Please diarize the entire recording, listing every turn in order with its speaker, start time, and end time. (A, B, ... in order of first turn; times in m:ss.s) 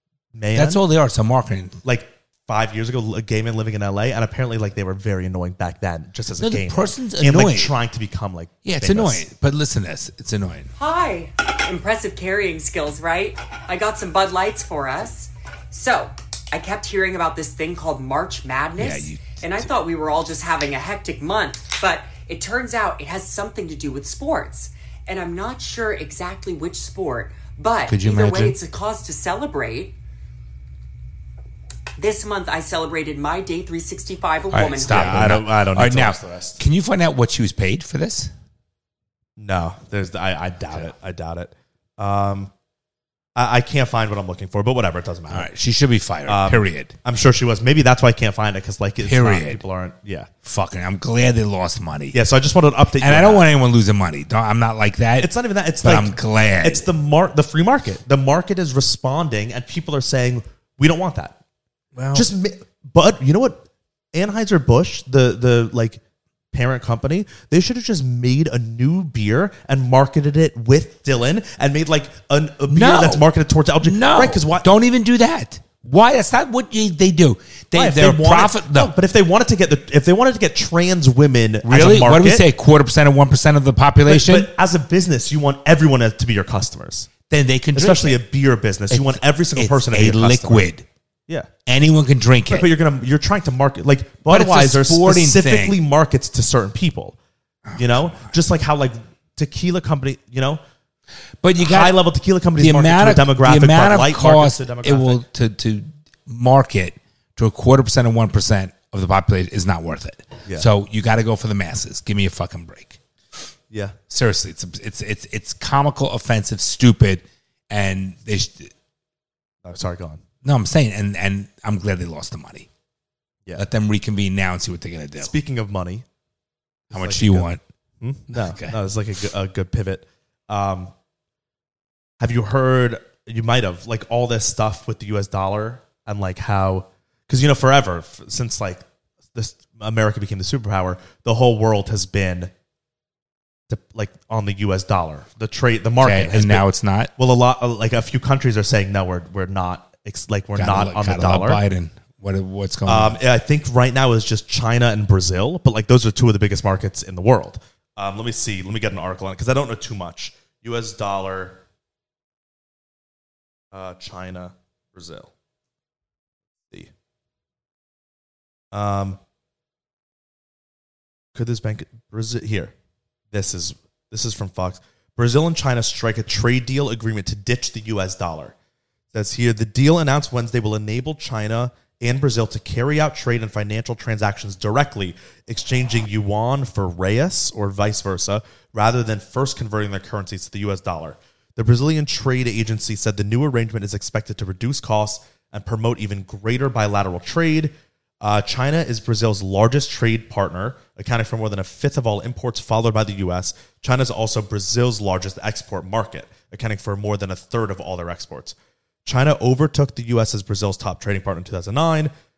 0:00.3-0:00.8 A
0:00.5-0:01.8 B
0:01.8-0:09.2 A
0:06.4-0:07.7 B
0:08.6-0:10.7 B
0:10.8-0:29.9 C
0:18.8-0:19.7 B
0:27.9-0:28.6 B
0:32.0-0:35.3 C
0:34.5-0:38.3 B
0:34.9-0:36.6 A
0:39.4-0:42.5 A
0:43.4-0:45.5 A
0:45.3-0:46.9 B
0:46.2-0:50.3 A
0:49.0-0:49.6 B
0:50.4-0:52.2 B
0:52.1-0:53.5 A
0:53.0-0:56.9 B
0:55.2-1:01.4 A
1:01.9-1:02.3 B
1:02.1-1:06.0 A
1:06.5-1:14.7 A
1:12.7-1:13.3 B
1:13.8-1:18.9 B
1:17.7-1:22.4 A
1:21.6-1:24.5 B
1:24.0-1:27.1 A
1:27.3-1:28.2 B
1:27.7-1:30.7 A
1:28.9-1:30.8 B
1:31.6-1:32.7 B
1:32.5-1:37.2 A
1:34.3-1:35.8 B
1:37.7-1:38.3 B
1:37.8-1:40.6 A
1:41.4-1:42.0 B
1:41.6-1:45.2 A
1:42.6-1:53.0 B
1:53.7-1:54.0 A
1:54.1-1:58.7 B
1:59.6-2:00.2 A
2:00.4-2:02.7 B
2:03.6-2:05.3 B
2:05.2-2:06.0 A
2:06.9-2:07.5 A
2:06.9-2:07.6 B
2:08.0-2:10.9 A
2:08.3-2:08.8 B
2:12.2-2:22.5 A
2:23.7-2:31.6 A
2:26.0-2:27.1 B
2:30.6-2:33.2 B
2:32.8-2:41.6 A
2:43.7-2:45.3 A
2:48.7-2:49.2 A
2:51.3-2:52.7 A
2:53.3-2:58.5 A
2:59.1-3:32.1 A